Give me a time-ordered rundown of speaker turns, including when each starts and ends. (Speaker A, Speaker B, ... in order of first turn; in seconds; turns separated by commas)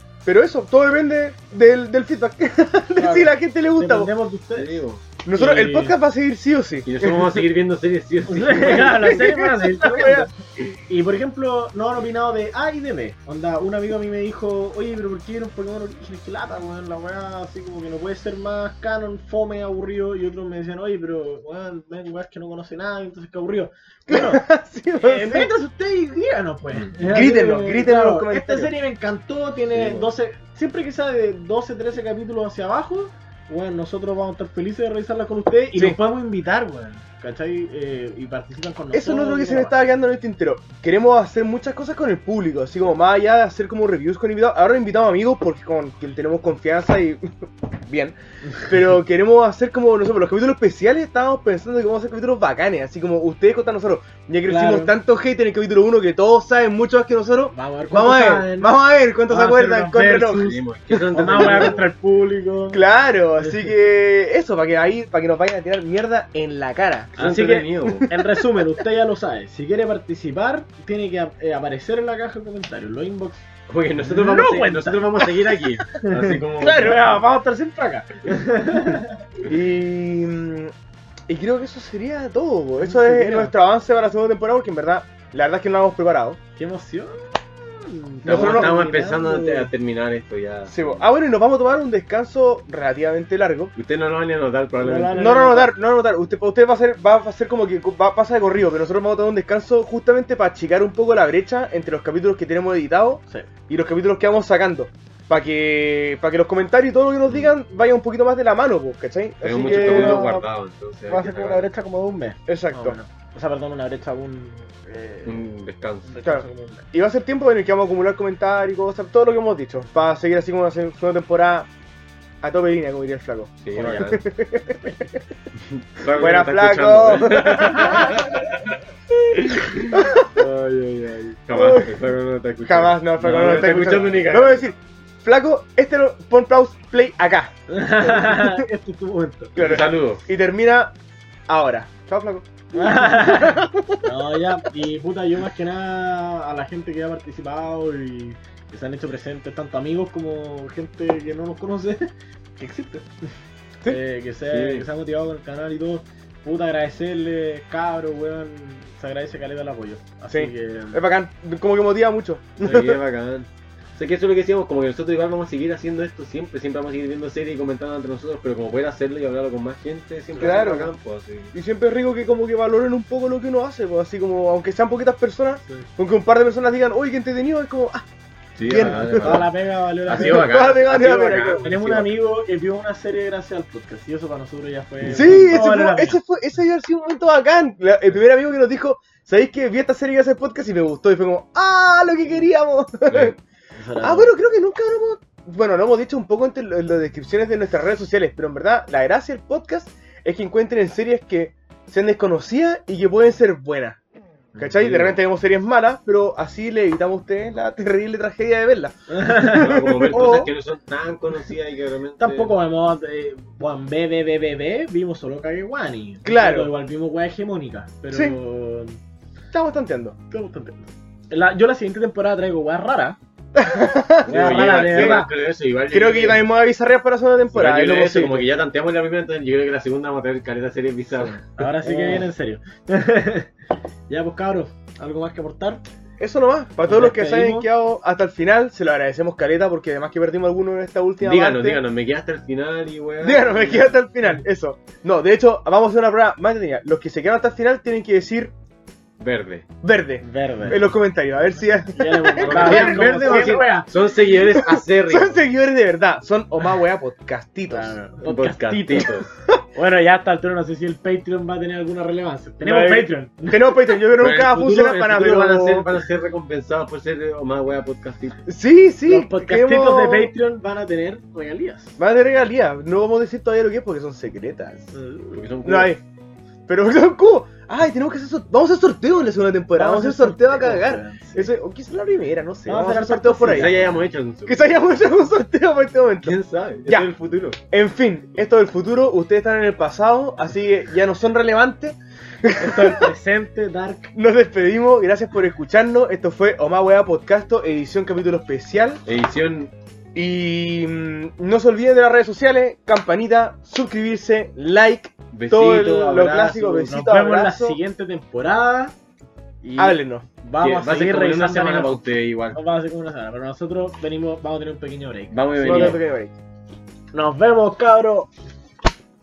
Speaker A: 0.3-4.1, Speaker B: 3.0-4.8, Speaker C: 4.5-5.0, Speaker A: 5.2-7.5, Speaker B: 5.3-6.0, Speaker C: 6.8-9.1, Speaker B: 8.3-10.3, Speaker A: 8.6-10.3, Speaker B: 10.9-24.4, Speaker A: 24.1-25.5, Speaker B: 25.0-39.7, Speaker A: 27.0-28.7, Speaker C: 29.7-30.1, Speaker A: 38.9-60.6, Speaker B: 54.5-54.9, Speaker B: 57.5-58.7, Speaker B: 59.3-60.6, Speaker C: 60.4-61.8, Speaker B: 61.1-62.8, Speaker A: 61.2-61.8, Speaker A: 62.7-67.2, Speaker B: 63.4-63.7, Speaker B: 67.2-73.4, Speaker C: 67.2-68.1, Speaker A: 68.0-68.2, Speaker C: 73.7-77.2, Speaker B: 74.0-75.3, Speaker B: 76.0-79.1, Speaker A: 79.4-80.7, Speaker A: 81.3-86.4, Speaker B: 82.8-83.5, Speaker B: 86.6-89.7, Speaker C: 88.2-91.0, Speaker A: 88.3-88.8, Speaker A: 90.7-93.7, Speaker C: 93.8-95.3, Speaker B: 94.8-95.8, Speaker A: 95.2-110.4, Speaker C: 107.3-107.5, Speaker C: 109.4-111.7, Speaker B: 109.5-110.5, Speaker B: 111.1-115.5, Speaker A: 112.5-113.0, Speaker C: 115.2-116.1, Speaker B: 116.0-116.8, Speaker A: 116.2-121.7, Speaker A: 122.4-125.0, Speaker C: 123.6-124.2, Speaker B: 123.8-124.1, Speaker C: 125.5-128.6, Speaker A: 126.1-128.2, Speaker C: 129.4-134.7, Speaker A: 129.9-130.3, Speaker A: 131.5-132.0, Speaker A: 132.6-137.5, Speaker B: 137.7-139.7, Speaker A: 138.0-138.6, Speaker A: 139.6-140.9, Speaker C: 139.6-140.2, Speaker A: 141.5-144.0, Speaker B: 142.7-153.1, Speaker B: 153.9-161.0, Speaker C: 154.5-154.9, Speaker A: 160.3-163.0, Speaker C: 162.6-171.5, Speaker B: 170.4-170.7, Speaker A: 170.4-170.9, Speaker A: 171.5-178.0, Speaker C: 178.6-179.5, Speaker A: 178.7-179.5, Speaker B: 178.8-180.7, Speaker C: 180.1-182.1, Speaker A: 180.1-181.7, Speaker B: 181.6-186.2, Speaker C: 185.0-185.7, Speaker A: 185.1-193.3, Speaker C: 193.1-193.4, Speaker B: 193.8-194.3, Speaker A: 194.0-204.0, Speaker A: 204.6-210.5, Speaker C: 204.6-205.2, Speaker B: 209.1-210.4, Speaker C: 209.4-212.5, Speaker B: 212.2-219.0, Speaker A: 216.2-216.7, Speaker A: 219.5-220.2, Speaker B: 220.3-223.2, Speaker A: 223.6-225.3, Speaker C: 224.2-226.4, Speaker B: 224.3-225.3, Speaker A: 225.9-228.5, Speaker C: 227.5-232.2, Speaker B: 231.6-233.5, Speaker B: 234.1-235.8, Speaker A: 236.2-241.8, Speaker B: 236.8-237.7, Speaker C: 241.2-244.0, Speaker A: 243.2-248.5, Speaker C: 249.2-249.7, Speaker A: 249.8-253.7, Speaker B: 250.2-250.9, Speaker B: 251.9-253.9, Speaker C: 252.4-255.4, Speaker A: 254.3-258.0, Speaker B: 257.7-259.2, Speaker C: 258.2-259.3, Speaker B: 259.8-263.9, Speaker A: 262.6-265.9, Speaker C: 264.2-268.4, Speaker A: 268.5-270.3, Speaker B: 269.1-272.0, Speaker A: 272.0-275.0, Speaker B: 274.9-275.4, Speaker C: 275.3-276.0, Speaker A: 275.6-276.0, Speaker A: 276.7-287.1, Speaker B: 279.8-281.5, Speaker B: 282.7-283.9, Speaker C: 283.5-284.7, Speaker C: 286.2-287.6, Speaker A: 287.7-293.1, Speaker B: 292.6-294.1, Speaker A: 294.1-299.0, Speaker C: 299.1-299.7, Speaker A: 300.1-307.8, Speaker C: 305.3-306.9, Speaker B: 306.9-308.9, Speaker B: 309.6-316.0, Speaker A: 309.8-310.3, Speaker C: 310.6-312.6, Speaker C: 315.3-316.0, Speaker A: 315.6-316.4, Speaker B: 317.1-318.3